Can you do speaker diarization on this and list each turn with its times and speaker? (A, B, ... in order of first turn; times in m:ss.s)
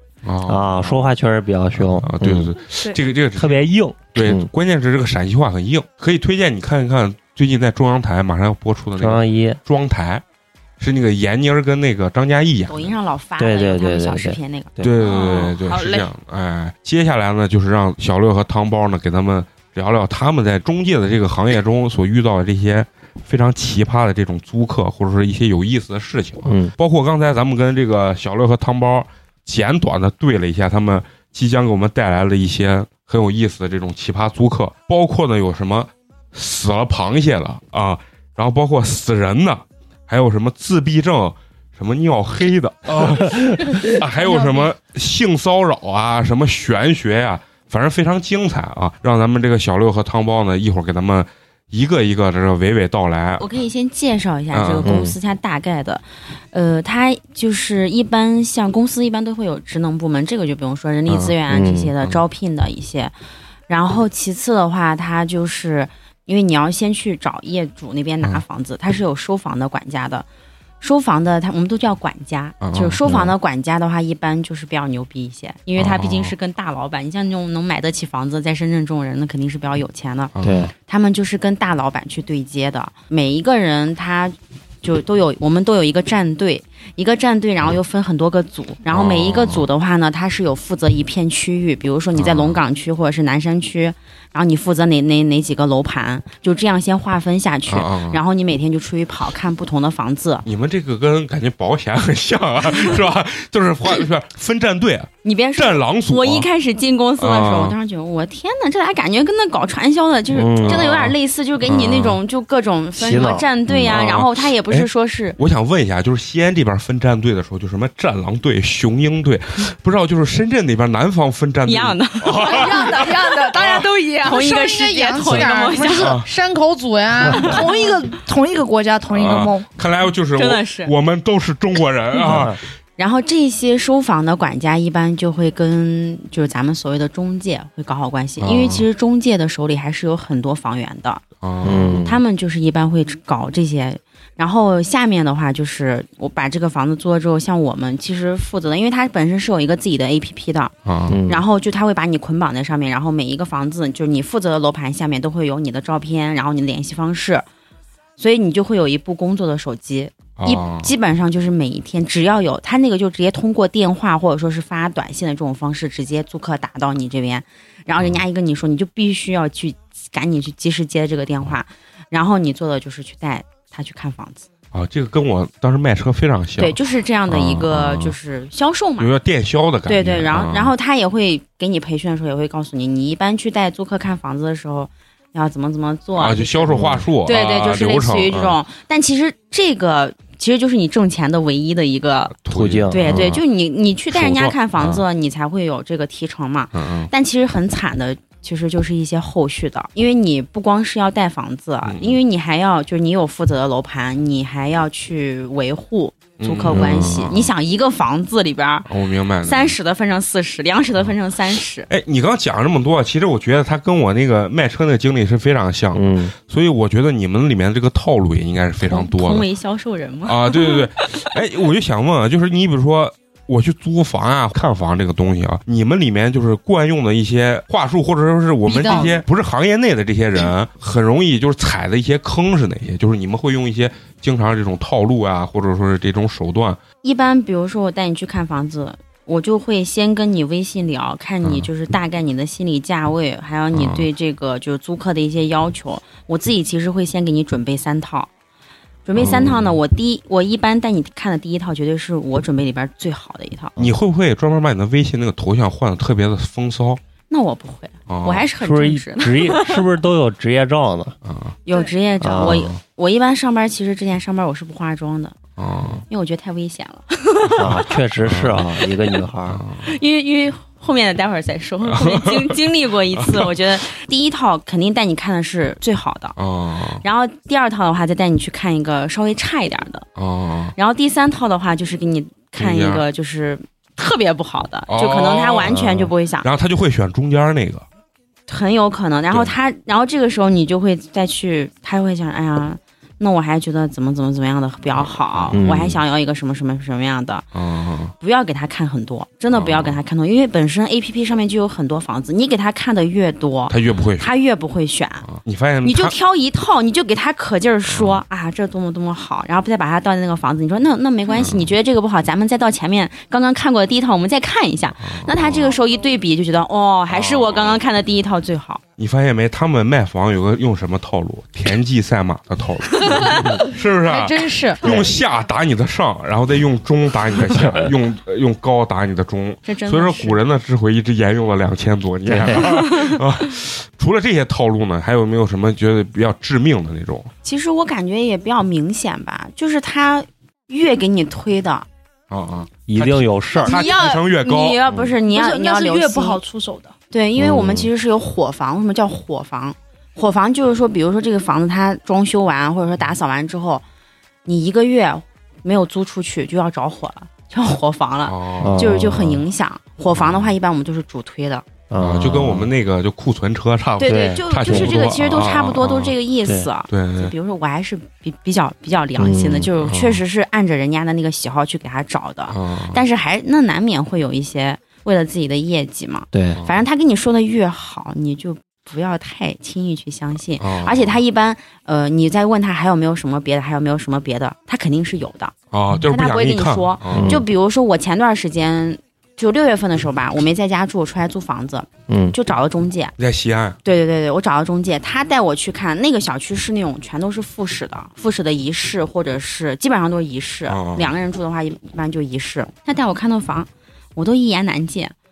0:00.2-0:01.1 A
0:00.4-0:02.5 B
0:01.8-0:10.2 A
0:03.4-0:04.5 B
0:09.0-0:09.6 B
0:10.8-0:12.9 A
0:12.7-0:14.8 C
0:13.4-0:15.0 B
0:14.8-0:53.4 A
0:15.0-0:16.0 D
0:26.4-0:26.7 B
0:44.2-0:44.6 E
0:53.4-1:03.1 C
0:54.5-0:54.9 A
0:54.8-0:55.1 B
1:01.1-1:01.4 A
1:01.5-1:01.9 B
1:03.7-1:10.2 C
1:10.8-1:40.4 C
1:12.6-1:13.0 A
1:13.0-1:13.3 B
1:15.8-1:16.3 A
1:20.3-1:20.7 A
1:20.4-1:20.7 B
1:28.9-1:29.6 A
1:32.2-1:32.6 A
1:37.7-1:38.2 A
1:40.4-1:46.5 A
1:45.2-1:55.4 C
1:47.2-1:47.7 A
1:50.3-1:51.1 B
1:50.6-1:51.1 A
1:51.6-1:52.2 A
1:53.0-1:53.4 B
1:53.7-2:03.8 A
2:01.6-2:03.3 C
2:02.3-2:04.6 D
2:04.2-2:06.2 C
2:04.3-2:07.7 E
2:06.0-2:06.2 A
2:07.4-2:09.7 D
2:09.1-2:12.6 A
2:10.3-2:10.9 C
2:12.2-2:12.6 B
2:13.0-2:21.2 C
2:18.4-2:18.8 A
2:21.4-2:22.0 A
2:21.6-2:22.2 B
2:21.8-2:30.7 C
2:30.8-2:31.2 A
2:31.1-2:31.4 B
2:31.3-2:37.4 C
2:38.2-2:54.5 C
2:40.4-2:40.9 A
2:48.0-2:48.2 A
2:54.7-2:56.8 A
2:56.6-2:59.1 C
2:57.3-2:58.1 A
2:59.0-3:00.7 A
2:59.9-3:12.3 C
3:06.2-3:08.6 A
3:12.4-3:13.4 A
3:12.5-3:13.3 B
3:12.9-3:28.9 C
3:14.1-3:15.0 A
3:16.7-3:17.1 A
3:21.8-3:22.2 A
3:26.4-3:27.5 A
3:26.7-3:27.2 B
3:28.9-3:29.8 A
3:29.4-3:31.9 C
3:31.9-3:39.4 A
3:35.9-3:36.3 B
3:38.8-3:41.3 C
3:40.2-3:56.8 A
3:48.6-3:49.2 E
3:48.8-3:49.1 C
3:57.0-4:08.3 C
4:01.4-4:01.7 A
4:03.7-4:04.1 A
4:09.0-4:13.8 C
4:09.2-4:09.7 A
4:09.2-4:09.5 B
4:13.8-4:17.0 A
4:17.3-4:19.8 C
4:18.1-4:18.5 A
4:18.6-4:21.1 B
4:21.2-4:21.6 A
4:21.6-4:25.4 C
4:22.2-4:22.7 B
4:22.4-4:22.8 A
4:25.6-4:26.0 A
4:26.1-4:28.0 C
4:27.6-4:29.6 B
4:28.2-4:28.6 A
4:28.8-4:29.2 C
4:29.5-4:29.8 A
4:29.8-4:36.4 C
4:31.9-4:32.5 A
4:33.2-4:33.5 A
4:36.4-4:37.0 A
4:37.0-4:40.1 C
4:40.2-4:40.7 A
4:40.7-4:46.5 C
4:42.6-4:43.0 A
4:44.9-4:45.8 A
4:45.7-4:46.1 B
4:46.4-4:47.8 A
4:48.5-4:57.5 C
4:49.3-4:49.5 A
4:54.9-4:55.6 A
4:55.5-4:56.0 B
4:57.5-4:58.1 A
4:58.2-5:05.3 C
4:59.5-5:00.0 A
5:03.7-5:04.3 A
5:05.2-5:06.1 A
5:05.8-5:18.8 C
5:07.9-5:08.2 A
5:11.3-5:11.7 A
5:15.0-5:15.8 A
5:17.1-5:17.8 A
5:19.0-5:37.3 A
5:23.0-5:23.5 C
5:23.9-5:25.1 E
5:29.6-5:30.4 C
5:32.3-5:32.7 B
5:32.7-5:33.1 C
5:37.4-5:41.9 C
5:42.3-5:44.8 A
5:42.9-5:43.8 B
5:43.5-5:46.4 C
5:45.3-5:46.9 D
5:47.1-5:53.8 C
5:47.4-5:47.9 B
5:54.4-6:01.7 C
5:58.2-5:58.9 A
5:58.6-5:59.4 B
6:00.1-6:00.5 A
6:01.9-6:02.7 B
6:02.0-6:06.1 A
6:04.0-6:25.5 C
6:04.0-6:05.0 B
6:06.9-6:07.3 A
6:09.2-6:09.7 B
6:09.8-6:10.2 A
6:12.5-6:13.0 A
6:16.3-6:16.6 B
6:20.6-6:21.2 A
6:25.7-6:27.4 A
6:26.1-6:33.1 C
6:27.1-6:27.4 B
6:32.1-6:32.3 B
6:33.2-6:33.8 A
6:33.8-6:45.1 C
6:40.7-6:41.1 A